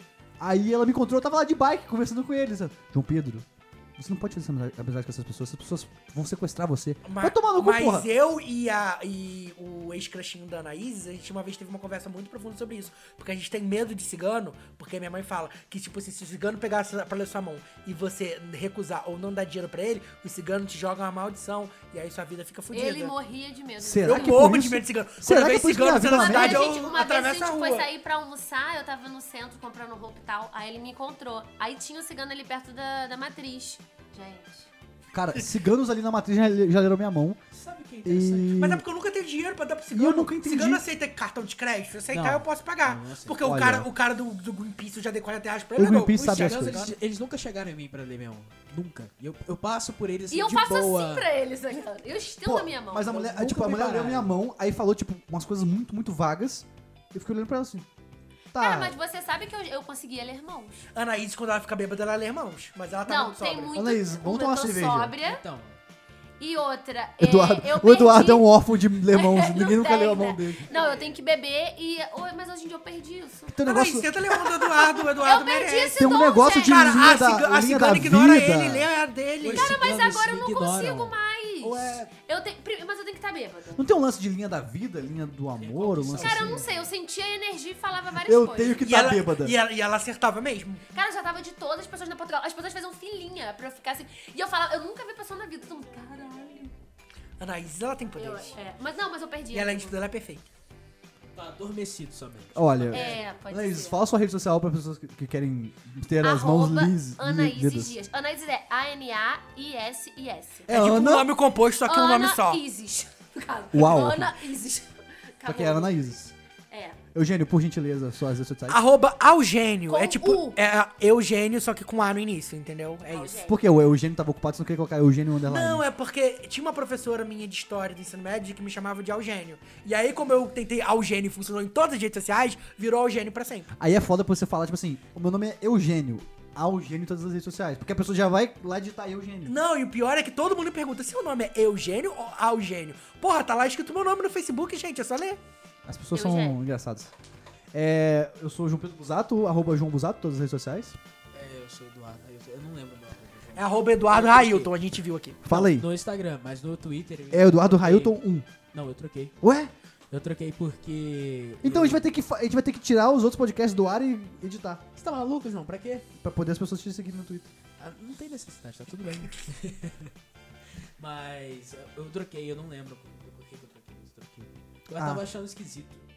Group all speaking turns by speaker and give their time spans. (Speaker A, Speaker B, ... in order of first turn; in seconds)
Speaker A: 0.4-3.5, 4.0-8.1, 23.8-26.8, 35.1-37.4, 38.0-38.9, 39.9-40.8, 43.4-43.9, 45.8-47.0, 52.4-57.9, 58.5-59.0, 63.7-65.1, 67.2-70.7, 73.5-75.0, 75.9-78.9, 83.8-86.6, 88.2-89.6, 102.5-108.0, 110.7-111.3, 113.7-114.3, 115.5-116.3, 117.1-118.8, 123.4-125.8, 133.8-139.6, 145.9-147.1, 147.7-151.0, 155.4-155.9, 157.3-158.5, 159.4-159.7, 161.6-164.8, 166.2-167.5, 175.0-175.2
Speaker B: 7.0-23.2, 24.1-27.9, 38.6-46.9, 61.0-63.8, 73.6-79.8, 88.8-90.9, 97.4-98.5, 99.5-100.5, 110.7-112.6, 118.7-123.4, 125.5-133.7, 139.5-145.4, 153.6-155.4
Speaker C: 22.7-24.4, 26.0-34.7, 50.3-53.1, 58.5-60.9, 63.1-65.4, 66.4-68.5, 69.1-73.6, 75.2-77.1, 79.5-83.8, 86.2-88.9, 90.9-96.7, 98.2-100.0, 102.9-104.0, 106.2-110.7, 111.8-117.0, 119.9-120.6, 123.1-123.6, 146.1-146.6
Speaker D: 37.5-38.6, 42.1-43.5, 45.8-51.3, 53.1-54.4, 65.2-65.8, 70.7-71.1, 79.4-82.1, 85.6-86.9, 101.3-103.2, 151.3-154.9, 155.5-158.2, 158.7-159.4, 160.1-162.1, 165.0-166.1, 167.8-170.1, 171.0-176.0